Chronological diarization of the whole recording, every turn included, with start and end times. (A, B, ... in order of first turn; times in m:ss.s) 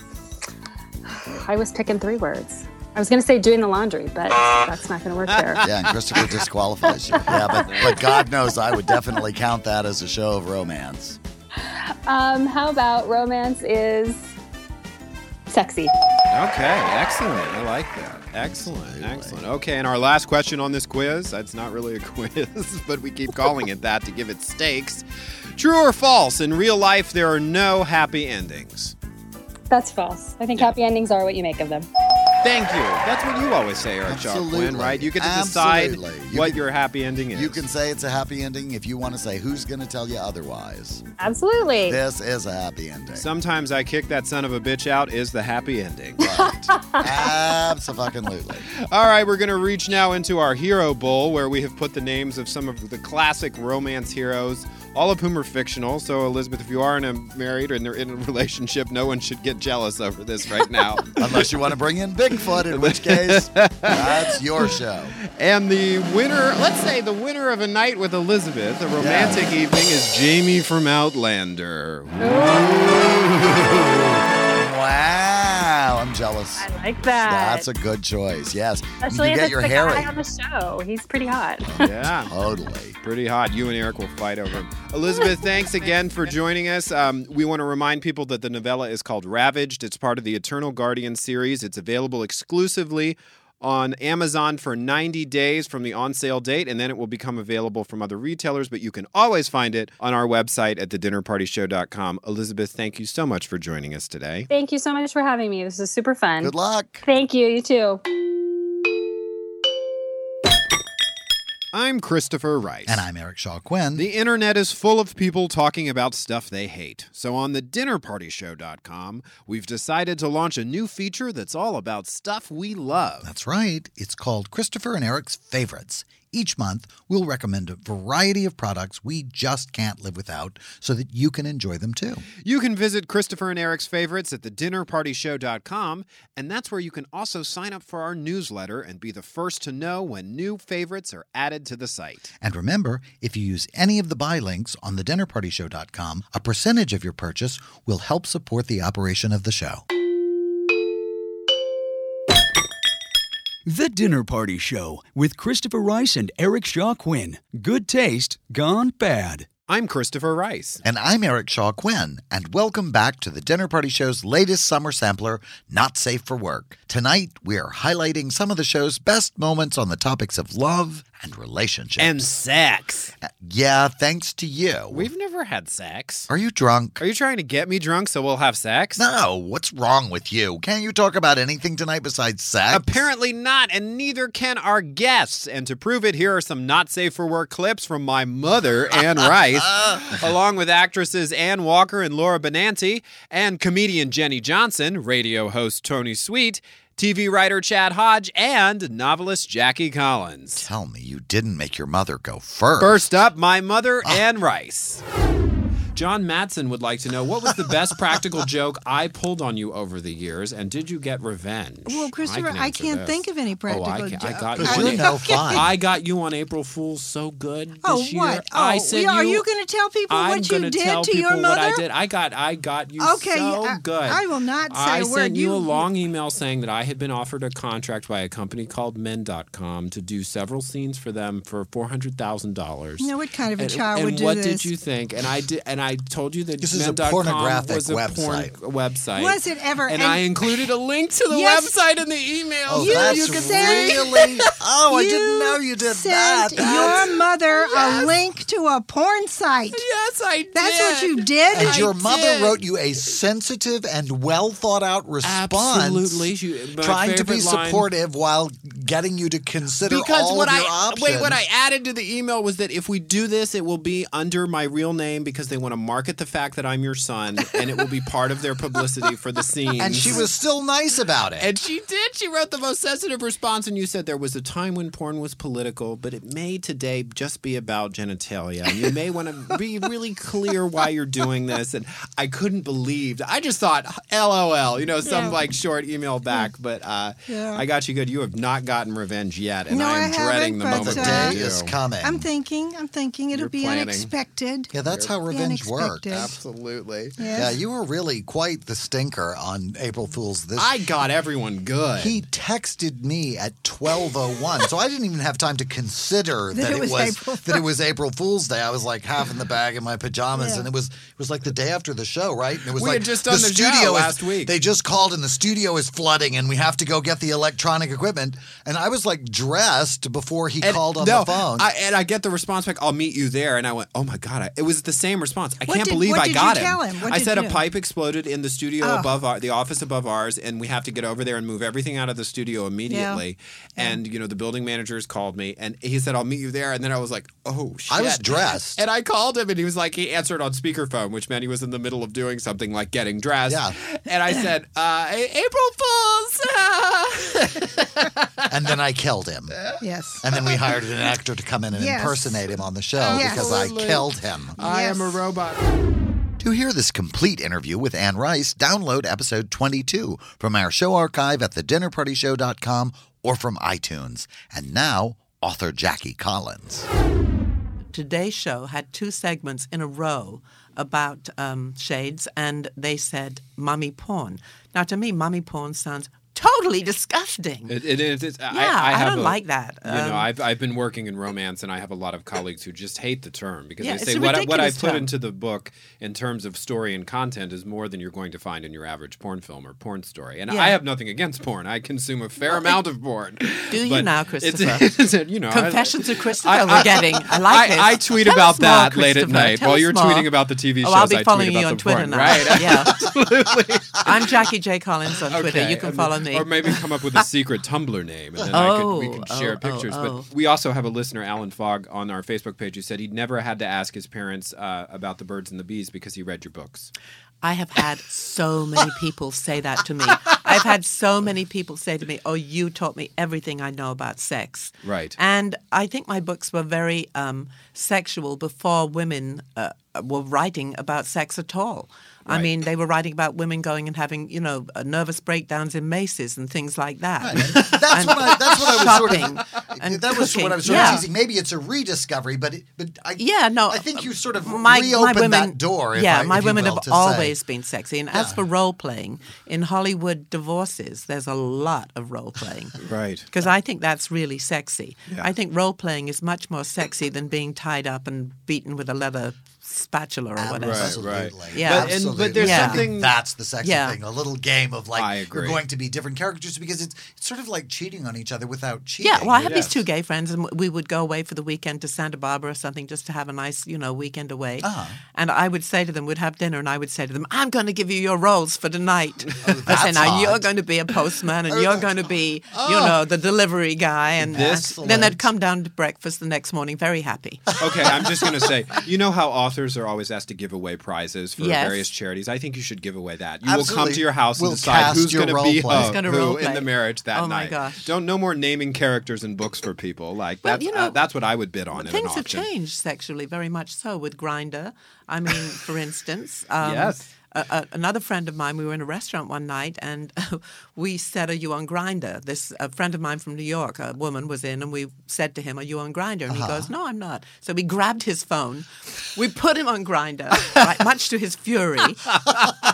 0:01.1-0:05.6 A
0:05.4-0:06.3 B
0:05.6-0:11.2 C
0:07.6-0:08.0 B
0:12.1-0:14.3 A
0:15.5-0:15.9 A
0:16.3-0:25.0 B
0:18.6-0:19.4 C
0:25.6-0:28.9 B
0:29.7-0:31.9 A
0:32.4-0:37.6 B
0:34.1-0:36.6 C
0:37.3-0:41.0 C
0:41.2-0:42.0 A
0:41.9-0:43.3 C
0:43.2-0:46.3 B
0:46.2-0:48.7 C
0:46.7-0:47.0 A
0:48.8-1:01.5 B
1:01.2-1:05.2 C
1:02.6-1:04.8 B
1:05.3-1:12.6 B
1:09.0-1:09.4 C
1:12.2-1:12.8 A
1:12.4-1:16.7 C
1:16.6-1:17.7 A
1:17.2-1:20.1 C
1:19.0-1:21.7 A
1:21.7-1:23.0 C
1:21.8-1:22.3 B
1:23.0-1:44.5 B
1:44.5-1:48.0 A
1:46.4-1:47.0 C
1:51.7-1:53.0 B
1:52.9-1:54.1 C
1:54.0-2:03.3 B
2:03.2-2:12.2 C
2:12.4-2:22.3 B
2:22.4-2:29.8 C
2:33.7-2:39.5 D
2:39.7-2:40.8 B
2:40.8-2:52.3 C
2:52.0-2:53.1 B
2:53.2-2:55.1 C
2:54.9-2:56.3 B
2:56.3-2:57.0 C
2:57.0-2:59.0 B
2:59.0-3:03.0 C
3:02.7-3:20.7 B
3:20.6-3:23.0 C
3:22.8-3:25.0 B
3:26.0-3:39.5 B
3:31.9-3:35.7 E
3:34.6-3:35.7 C
3:37.8-3:41.8 E
3:40.1-4:04.5 B
3:43.0-3:45.9 E
3:53.0-3:54.7 E
3:56.6-3:58.5 C
3:59.2-4:00.5 E
4:01.3-4:01.8 E
4:02.7-4:07.1 C
4:02.8-4:04.1 E
4:04.9-4:09.8 E
4:06.6-4:08.2 B
4:09.7-4:12.6 B
4:10.5-4:12.0 E
4:11.5-4:21.4 C
4:15.2-4:17.9 B
4:19.8-4:30.3 B
4:29.8-4:31.5 C
4:31.4-4:51.7 B
4:45.0-4:45.4 E
4:47.3-4:47.6 E
4:49.7-4:51.4 E
4:50.7-4:52.3 C
4:52.0-4:54.7 E
4:53.3-4:54.1 B
4:54.7-4:56.3 C
4:54.8-4:55.2 B
4:55.2-4:56.3 E
4:56.1-4:57.1 B
4:57.2-4:57.5 E
4:57.3-5:00.8 C
5:00.6-5:02.2 B
5:02.0-5:21.7 C
5:06.5-5:07.6 E
5:12.8-5:14.5 B
5:20.6-5:48.5 B
5:25.6-5:27.6 E
5:28.8-5:29.2 E
5:32.9-5:33.2 E
5:37.9-5:38.8 C
5:43.5-5:43.8 C
5:48.5-5:49.6 C
5:49.8-5:50.4 E
5:50.2-5:54.6 C
5:51.7-5:52.4 E
5:53.0-5:55.6 B
5:53.0-5:53.6 E
5:54.6-5:55.2 E
5:56.4-6:06.9 C
6:07.9-6:17.8 F
6:17.7-6:44.3 B
6:18.5-6:20.3 F
6:23.8-6:25.1 F
6:30.5-6:30.8 F
6:33.7-6:35.0 F
6:35.5-6:40.3 F
6:40.8-6:43.1 F
6:44.0-6:47.0 F
6:45.3-6:56.9 B
6:48.5-6:50.3 F
6:57.4-7:21.0 F
7:04.8-7:05.2 B
7:17.2-7:27.4 C
7:20.6-7:21.0 B
7:23.2-7:32.8 F
7:28.1-7:28.4 C
7:32.8-7:33.3 B
7:33.3-7:41.0 F
7:40.4-7:49.8 C
7:40.6-7:43.2 B
7:41.5-7:42.9 F
7:43.6-7:44.0 F
7:45.0-7:45.6 B
7:49.0-8:07.5 F
7:49.4-7:49.7 B
7:54.6-7:55.0 C
7:59.4-8:00.5 C
8:01.5-8:01.9 C
8:02.5-8:03.0 C
8:04.2-8:05.3 C
8:04.3-8:05.1 B
8:07.6-8:22.5 B
8:11.4-8:11.9 F
8:13.4-8:16.0 C
8:15.7-8:17.9 F
8:20.4-8:21.0 F
8:21.7-8:42.2 F
8:26.6-8:27.0 B
8:36.3-8:36.7 C